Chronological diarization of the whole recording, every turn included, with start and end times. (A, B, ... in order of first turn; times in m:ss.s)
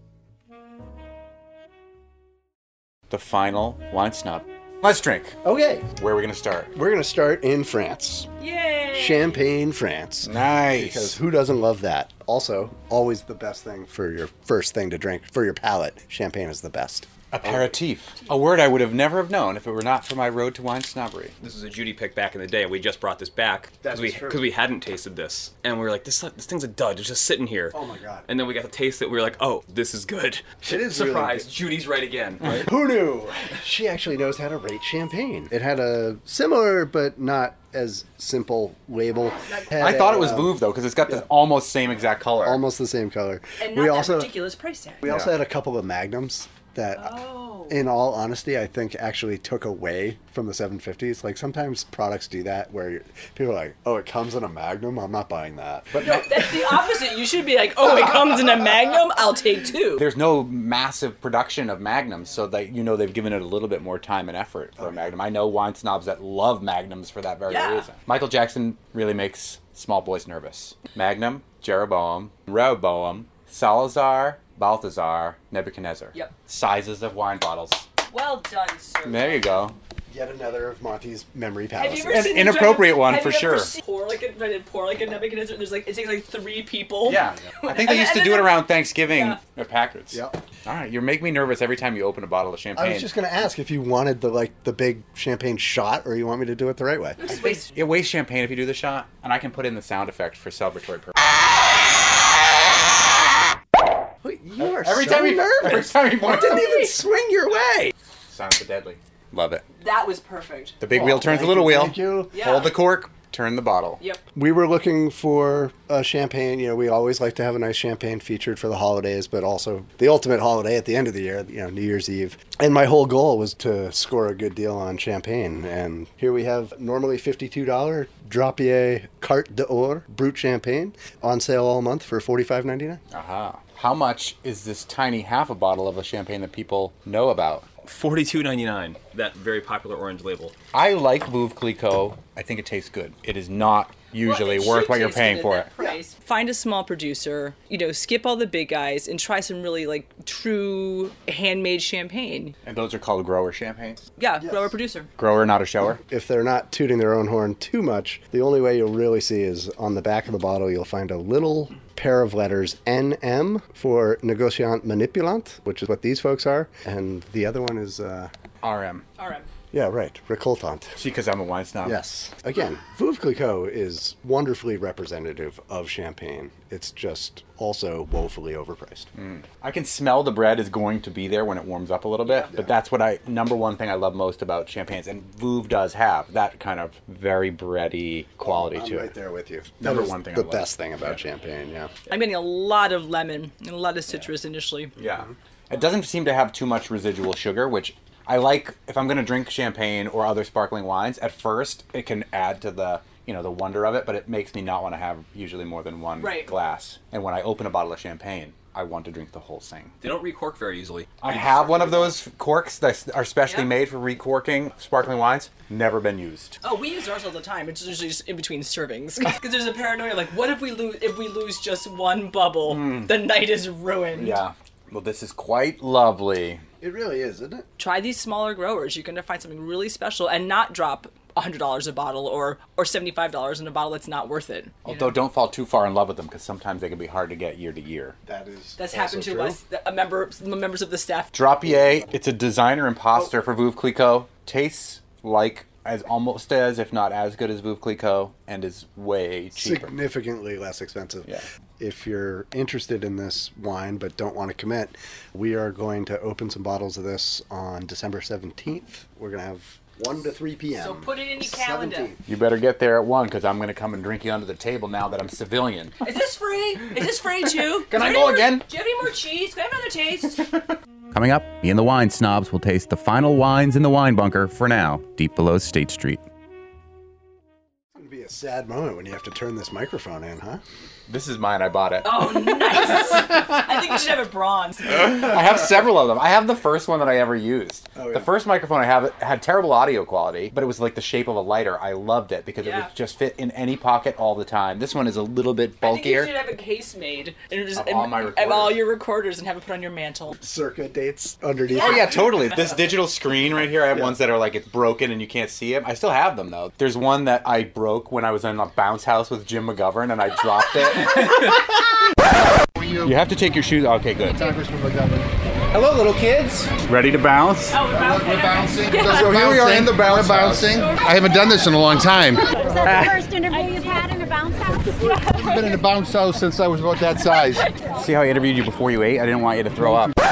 0:03.1-0:05.4 A
0:05.4-0:05.9 B
0:05.9-0:06.7 A
0:06.7-0:08.3 B
0:08.4-0:09.4 C
0:08.9-0:17.7 B
0:10.2-0:11.2 A
0:17.3-0:21.4 A
0:21.4-0:32.7 D
0:23.8-0:24.5 B
0:27.7-0:28.3 B
0:30.7-0:31.5 B
0:32.6-0:41.2 B
0:39.5-0:39.8 C
0:39.8-0:42.6 A
0:42.4-0:44.4 B
0:43.6-0:45.0 C
0:45.0-0:56.0 B
0:46.9-0:47.8 C
0:55.9-0:56.6 A
0:56.0-1:00.0 C
1:00.0-1:17.8 A
1:07.5-1:07.9 C
1:18.1-1:19.6 C
1:19.0-1:19.8 A
1:20.1-1:22.3 B
1:21.8-1:29.4 C
1:22.1-1:23.8 A
1:27.0-1:33.1 A
1:30.1-1:30.4 B
1:32.8-1:37.2 B
1:37.2-1:37.7 C
1:37.2-1:41.1 A
1:44.2-1:47.9 B
1:44.6-1:46.9 A
1:48.3-1:49.6 A
1:49.8-1:50.8 C
1:50.8-1:54.0 A
1:50.9-1:52.4 B
1:52.3-1:52.8 C
1:54.4-2:13.0 B
2:13.1-2:17.7 A
2:17.8-2:20.6 D
2:20.7-2:25.7 A
2:24.2-2:32.6 C
2:32.6-2:34.0 A
2:34.2-2:35.1 C
2:34.4-2:34.7 B
2:35.2-2:36.0 A
2:36.0-2:48.3 B
2:48.6-2:49.0 A
2:49.2-2:49.5 C
2:49.7-2:51.0 B
2:51.0-2:52.0 A
2:51.8-2:59.1 B
2:59.2-3:09.1 A
3:02.2-3:02.5 C
3:08.4-3:11.9 B
3:09.8-3:11.2 A
3:12.1-3:14.9 C
3:15.0-3:29.9 A
3:15.1-3:15.3 B
3:26.2-3:26.5 C
3:30.0-3:32.2 D
3:31.2-3:36.6 A
3:33.4-3:33.7 C
3:36.6-3:44.4 C
3:42.7-3:43.1 A
3:44.1-3:46.6 A
3:46.8-3:47.7 B
3:47.8-3:54.8 C
3:54.8-3:58.2 A
3:58.3-3:59.6 B
3:58.8-4:01.3 C
4:01.3-4:09.9 A
4:09.6-4:22.2 B
4:20.8-4:22.1 C
4:22.3-4:26.0 A
4:26.0-4:30.4 C
4:27.9-4:28.7 A
4:30.4-4:36.2 A
4:37.9-4:40.6 B
4:41.1-4:42.2 A
4:42.0-4:45.3 C
4:44.9-4:56.3 A
4:48.0-4:48.3 B
4:52.6-4:52.9 C
4:55.8-5:00.4 C
4:57.7-4:58.9 A
5:00.4-5:02.5 B
5:01.7-5:12.0 A
5:13.0-5:14.6 A
5:14.5-5:15.2 B
5:15.7-5:17.8 A
5:17.7-5:19.5 C
5:17.9-5:22.2 E
5:19.1-5:20.4 B
5:19.4-5:20.6 A
5:20.6-5:22.3 C
5:22.5-5:25.1 F
5:22.8-5:23.2 A
5:25.0-5:26.2 C
5:25.4-5:26.6 E
5:26.9-5:28.0 C
5:27.9-5:30.1 A